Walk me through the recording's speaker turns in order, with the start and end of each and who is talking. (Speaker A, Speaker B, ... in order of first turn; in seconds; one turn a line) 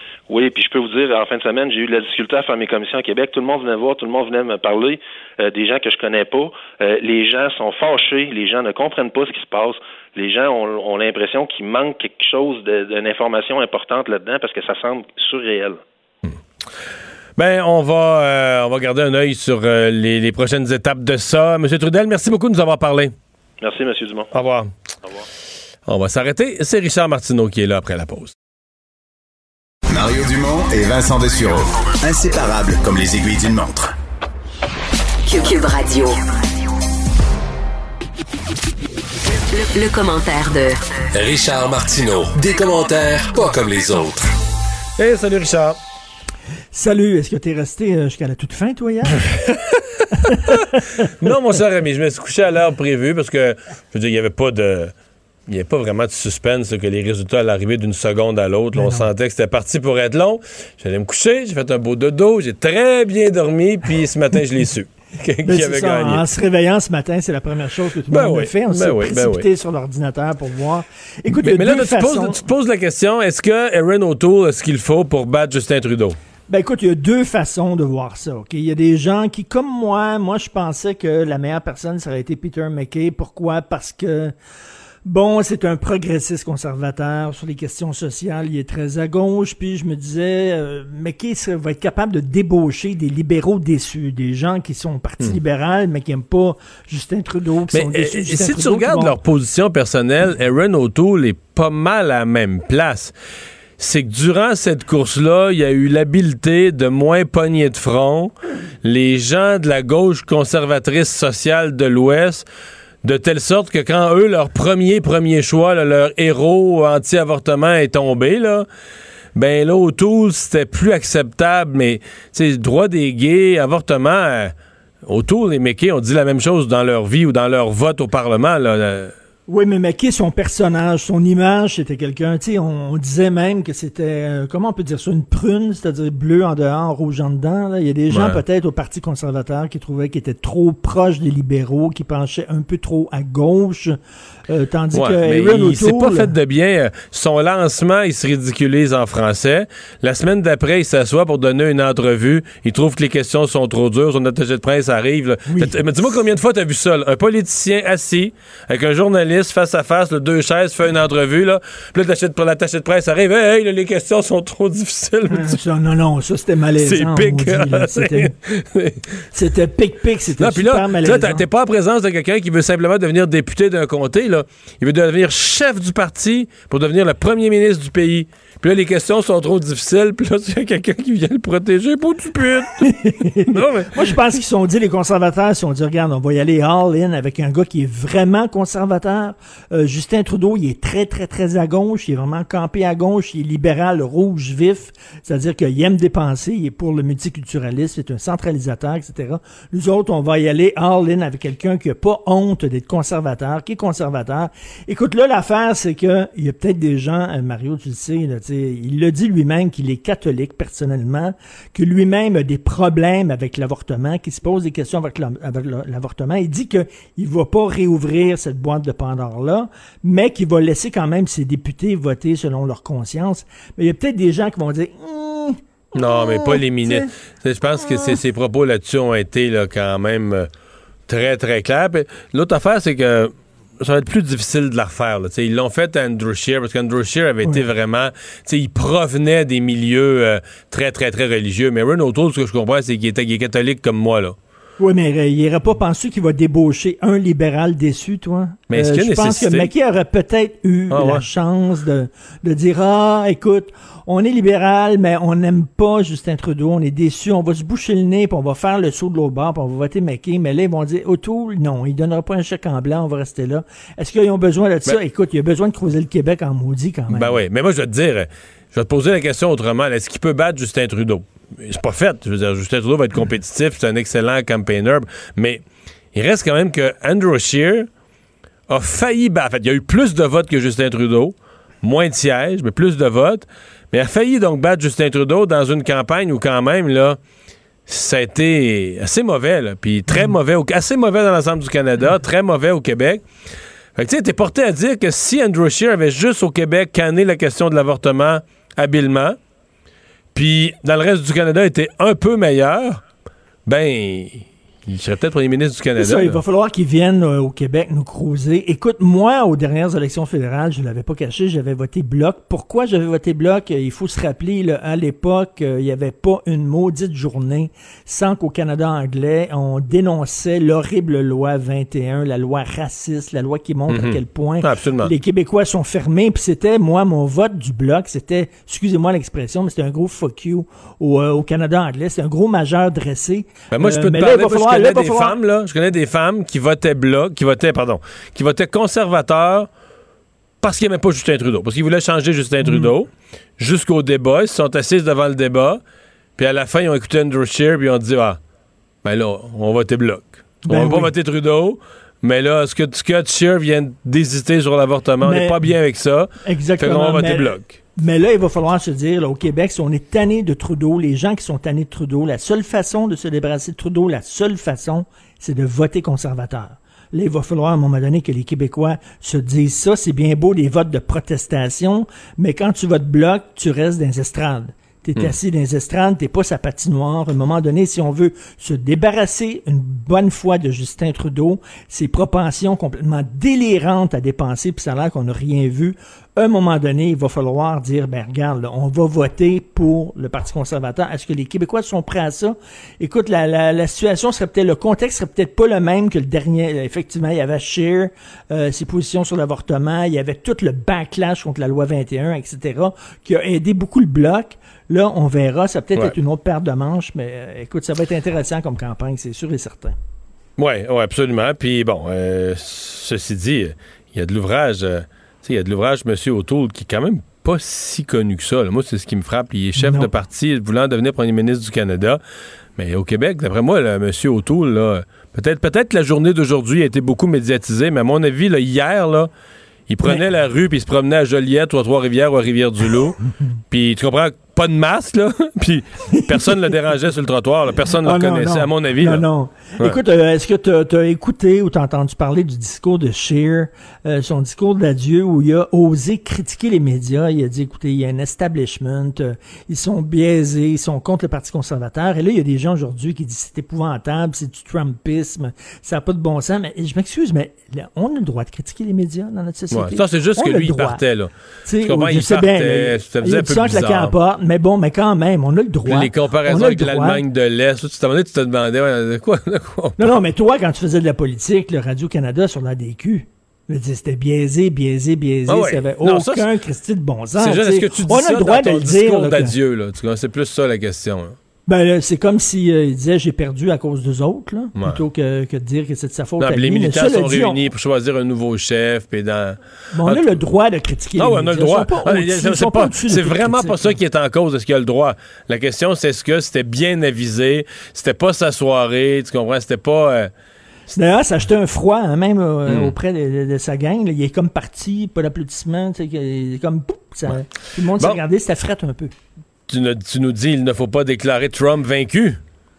Speaker A: 0.3-15.8
Speaker B: 17.4-23.1
Speaker A: 23.6-24.3
Speaker B: 24.3-24.7
Speaker B: 25.9-28.3
Speaker C: 29.9-33.9
Speaker D: 35.3-36.2
Speaker D: 39.5-40.8
Speaker E: 41.1-44.3
Speaker B: 45.0-45.8
Speaker F: 46.7-49.4
Speaker F: 50.2-51.1
Speaker B: 51.2-54.9
Speaker B: 55.5-66.2
Speaker F: 58.7-59.1
Speaker F: 65.4-72.5
Speaker B: 68.1-69.5
Speaker B: 71.4-76.2
Speaker F: 76.5-84.3
Speaker F: 85.1-99.2
Speaker B: 97.7-103.1
Speaker B: 103.8-112.5
Speaker B: 113.0-118.7
Speaker B: 119.3-124.5
Speaker B: 125.1-129.1
Speaker F: 129.5-144.0
Speaker B: 138.1-138.4
Speaker F: 144.5-146.3
Speaker B: 144.9-165.6
Speaker F: 155.4-155.8
Speaker F: 165.3-168.3
Speaker B: 166.8-169.0
Speaker F: 169.3-171.4
Speaker B: 170.4-182.8
Speaker F: 182.8-227.1
Speaker B: 183.5-183.9
Speaker B: 225.9-230.5
Speaker F: 227.8-228.2
Speaker B: 231.1-244.3
Speaker F: 244.8-267.4
Speaker B: 248.7-249.7
Speaker B: 250.9-251.2
Speaker B: 267.1-275.6
Speaker B: 276.1-277.9
Speaker B: 278.7-287.2
Speaker B: 287.9-293.2
Speaker B: 293.9-299.4
Speaker B: 300.3-303.0
Speaker B: 303.6-306.4
Speaker F: 306.0-335.4
Speaker B: 323.9-325.1
Speaker B: 333.7-339.7
Speaker B: 340.6-345.8
Speaker F: 342.6-342.9
Speaker B: 346.4-348.4
Speaker B: 349.0-357.8
Speaker F: 350.7-351.1
Speaker F: 355.2-355.7
Speaker F: 356.4-409.9
Speaker B: 410.6-422.2
Speaker F: 419.8-420.1
Speaker B: 422.8-429.3
Speaker B: 429.9-433.2
Speaker B: 433.7-439.3
Speaker F: 436.1-436.6
Speaker F: 438.0-461.0
Speaker B: 459.7-461.3
Speaker F: 461.6-467.2
Speaker B: 461.8-464.1
Speaker B: 465.9-470.1
Speaker F: 470.0-479.6
Speaker B: 475.5-476.5
Speaker B: 477.4-481.4
Speaker F: 481.7-487.6
Speaker B: 486.4-490.4
Speaker F: 489.9-493.9
Speaker B: 491.2-500.3
Speaker F: 500.9-509.1
Speaker B: 502.7-502.9
Speaker B: 509.7-512.4